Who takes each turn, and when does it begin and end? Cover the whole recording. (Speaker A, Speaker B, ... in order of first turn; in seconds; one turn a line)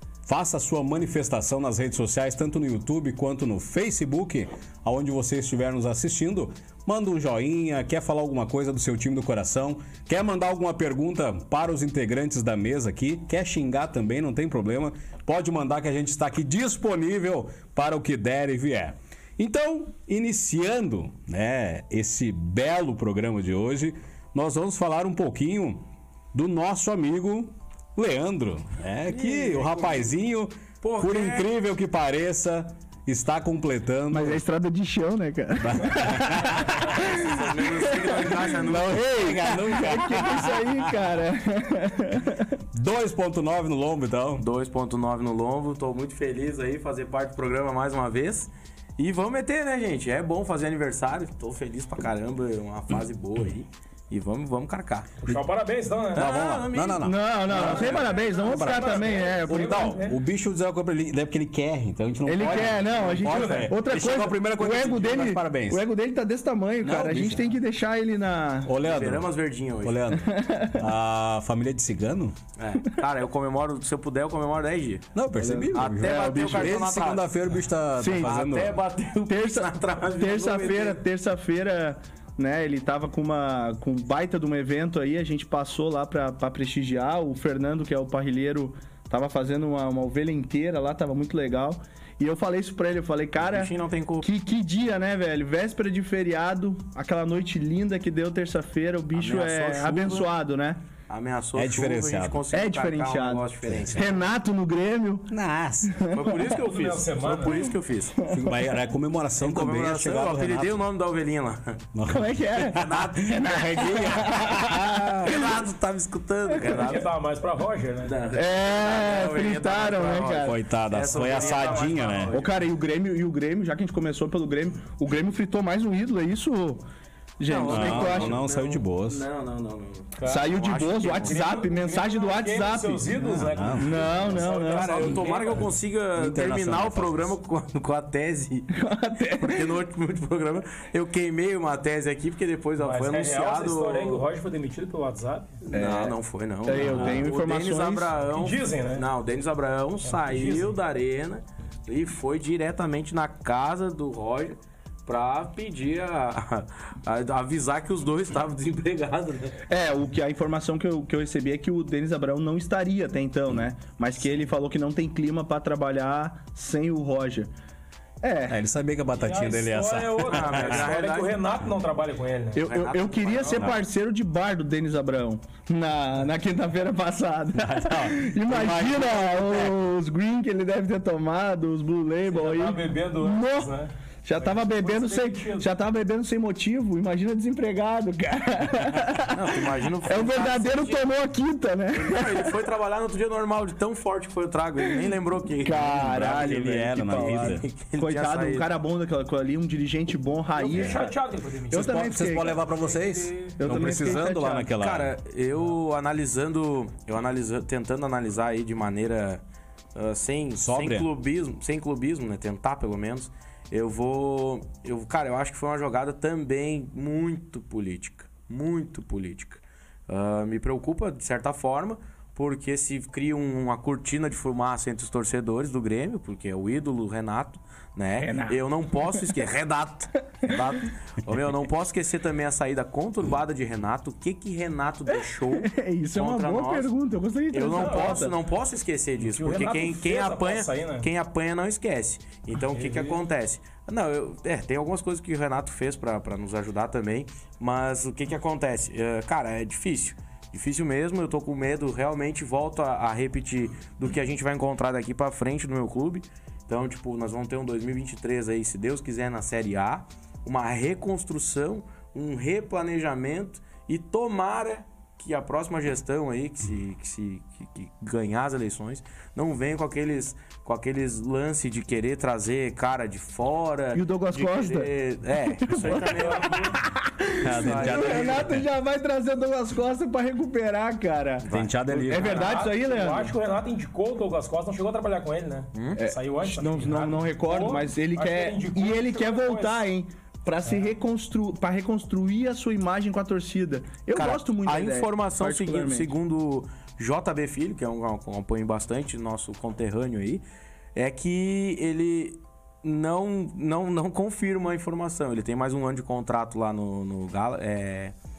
Speaker A: 0.2-34.4
Speaker B: 29.1-30.1
Speaker B: 30.8-31.5
Speaker C: 34.1-42.5
Speaker A: 35.6-37.2
Speaker B: 37.0-39.1
Speaker A: 38.6-41.1
Speaker A: 42.7-44.4
Speaker B: 44.4-55.1
Speaker D: 55.2-56.3
Speaker A: 56.1-65.8
Speaker B: 56.1-58.1
Speaker C: 57.0-60.0
Speaker D: 57.5-60.2
Speaker C: 62.2-68.7
Speaker D: 63.1-63.7
Speaker A: 66.8-67.4
Speaker A: 68.6-72.3
Speaker B: 68.8-70.0
Speaker C: 70.2-70.8
Speaker B: 72.6-75.0
Speaker A: 75.1-78.8
Speaker C: 75.4-76.8
Speaker B: 75.7-77.3
Speaker C: 78.0-78.3
Speaker B: 78.0-81.0
Speaker C: 79.3-100.8
Speaker B: 93.4-94.3
Speaker B: 99.1-100.3
Speaker B: 101.1-104.3
Speaker A: 101.5-102.4
Speaker C: 102.5-105.3
Speaker A: 103.7-104.0
Speaker A: 105.3-106.0
Speaker C: 105.9-106.4
Speaker B: 106.1-108.2
Speaker D: 106.3-107.6
Speaker C: 107.5-108.6
Speaker A: 108.3-110.8
Speaker B: 109.4-111.8
Speaker A: 111.9-115.4
Speaker C: 112.1-115.6
Speaker B: 112.7-114.0
Speaker B: 115.2-117.1
Speaker C: 116.5-116.9
Speaker D: 116.6-118.2
Speaker B: 118.0-122.5
Speaker C: 118.3-120.6
Speaker A: 120.3-122.3
Speaker D: 121.1-122.1
Speaker C: 122.3-126.8
Speaker C: 127.4-128.4
Speaker B: 127.5-131.5
Speaker A: 127.6-129.2
Speaker D: 130.2-130.5
Speaker C: 130.2-133.1
Speaker D: 131.1-135.7
Speaker A: 133.2-134.1
Speaker C: 133.8-135.2
Speaker B: 134.1-138.8
Speaker A: 136.1-137.3
Speaker C: 138.7-139.8
Speaker B: 139.3-144.2
Speaker D: 142.8-145.6
Speaker B: 145.7-159.6
Speaker C: 145.7-148.1
Speaker A: 146.8-147.3
Speaker D: 148.3-149.1
Speaker D: 150.0-150.8
Speaker C: 159.7-167.5
Speaker C: 168.2-168.6
Speaker A: 168.5-170.8
Speaker D: 169.1-172.6
Speaker B: 170.2-171.4
Speaker C: 172.5-183.7
Speaker B: 172.6-173.8
Speaker A: 177.6-179.9
Speaker D: 182.2-185.7
Speaker C: 184.2-189.5
Speaker B: 189.3-191.1
Speaker C: 190.0-192.5
Speaker B: 191.9-196.4
Speaker C: 195.6-201.1
Speaker A: 195.8-197.6
Speaker B: 197.2-198.7
Speaker D: 200.6-203.6
Speaker C: 201.7-202.5
Speaker A: 201.7-205.2
Speaker C: 203.6-204.7
Speaker B: 204.8-209.4
Speaker B: 209.9-236.9
Speaker A: 210.6-211.1
Speaker C: 228.2-229.3
Speaker C: 235.5-238.3
Speaker B: 237.5-276.8
Speaker D: 237.7-238.2
Speaker D: 239.2-241.1
Speaker D: 242.5-243.2
Speaker C: 273.9-274.9
Speaker C: 275.5-281.5
Speaker D: 275.7-276.8
Speaker A: 277.4-278.7
Speaker B: 277.4-278.5
Speaker B: 281.4-281.8
Speaker A: 281.5-282.5
Speaker D: 281.9-289.8
Speaker C: 282.1-283.3
Speaker B: 285.7-286.0
Speaker C: 286.0-296.1
Speaker D: 290.6-290.9
Speaker B: 294.1-300.4
Speaker B: 300.9-308.1